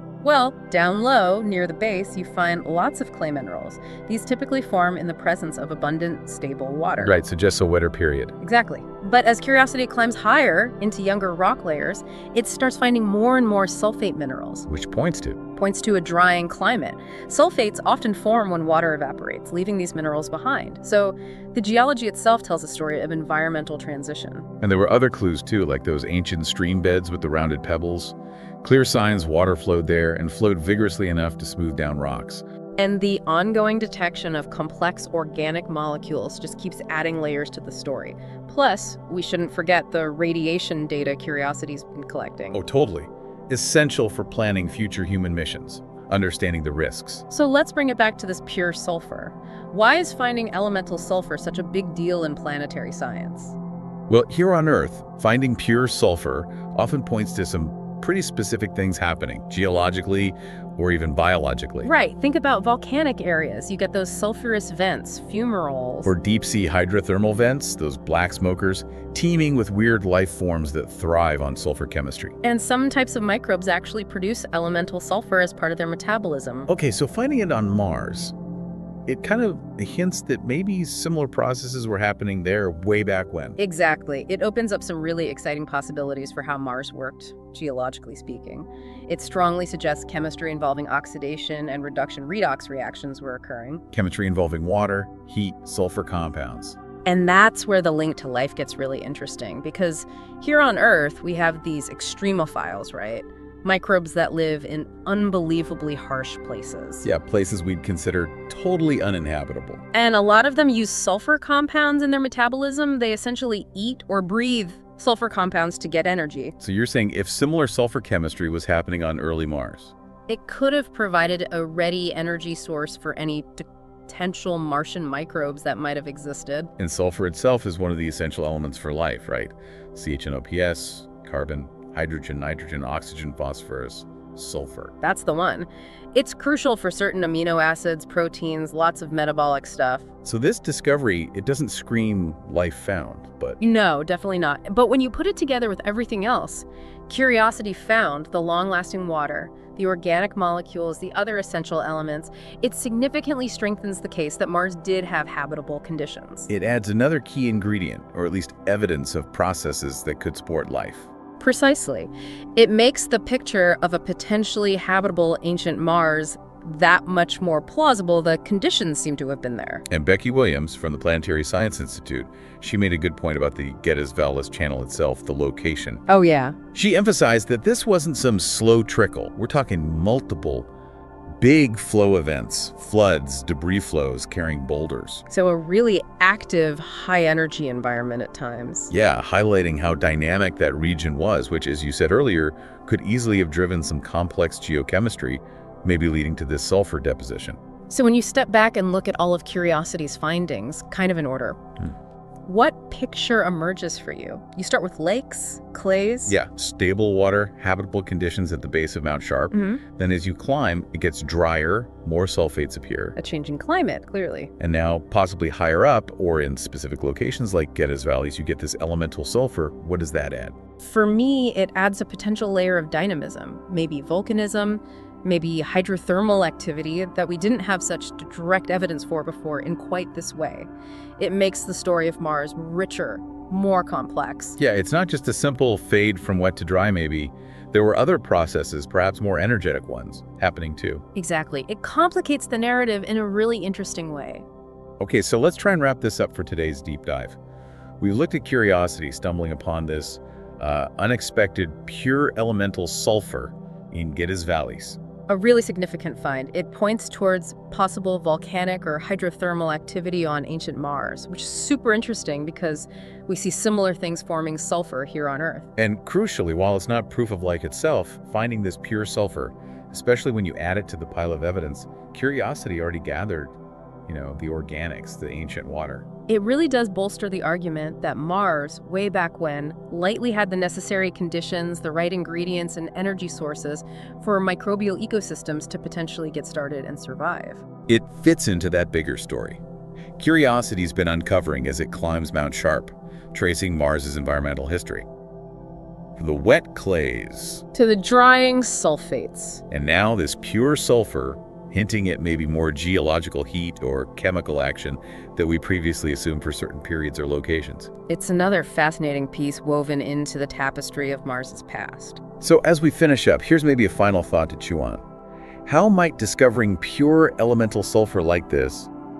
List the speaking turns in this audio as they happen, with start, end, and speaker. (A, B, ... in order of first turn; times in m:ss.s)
0:00.2-0:07.2 A
0:07.0-0:08.3 B
0:08.4-0:14.7 A
0:14.7-0:15.4 B
0:15.6-0:24.5 A
0:24.6-0:32.4 B
0:32.8-0:42.6 A
0:42.5-0:47.2 B
0:47.3-0:53.5 A
0:54.1-1:01.9 B
1:01.8-1:06.1 A
1:06.0-1:12.3 B
1:12.4-1:16.7 A
1:16.7-1:18.3 B
1:19.1-1:23.6 B
1:23.6-1:33.8 A
1:33.9-1:36.8 B
1:37.0-1:47.0 A
1:47.0-1:49.8 B
1:49.9-1:56.5 A
1:56.6-1:59.9 B
2:00.3-2:06.7 A
2:06.8-2:14.9 B
2:15.0-2:20.0 A
2:20.2-2:23.6 B
2:23.6-2:36.5 A
2:36.5-2:41.1 B
2:41.4-2:49.8 A
2:49.9-2:56.0 B
2:56.1-2:56.6 A
2:56.7-3:00.7 B
3:01.4-3:05.2 B
3:05.3-3:08.9 A
3:08.9-3:17.6 B
3:17.9-3:21.6 A
3:22.4-3:26.4 A
3:26.3-3:33.2 B
3:29.5-3:29.8 A
3:33.2-3:34.5 A
3:34.6-3:40.5 B
3:40.8-3:54.6 A
3:54.6-4:01.0 B
4:01.1-4:04.4 A
4:05.0-4:07.4 B
4:08.0-4:15.0 B
4:15.3-4:25.7 A
4:25.8-4:33.5 B
4:34.0-4:36.0 B
4:36.3-4:47.6 A
4:47.9-4:49.6 B
4:50.2-4:55.1 B
4:56.2-4:57.6 B
4:57.7-4:59.6 A
4:59.7-5:07.9 B
5:08.1-5:12.2 A
5:12.4-5:15.0 B
5:15.6-5:18.9 B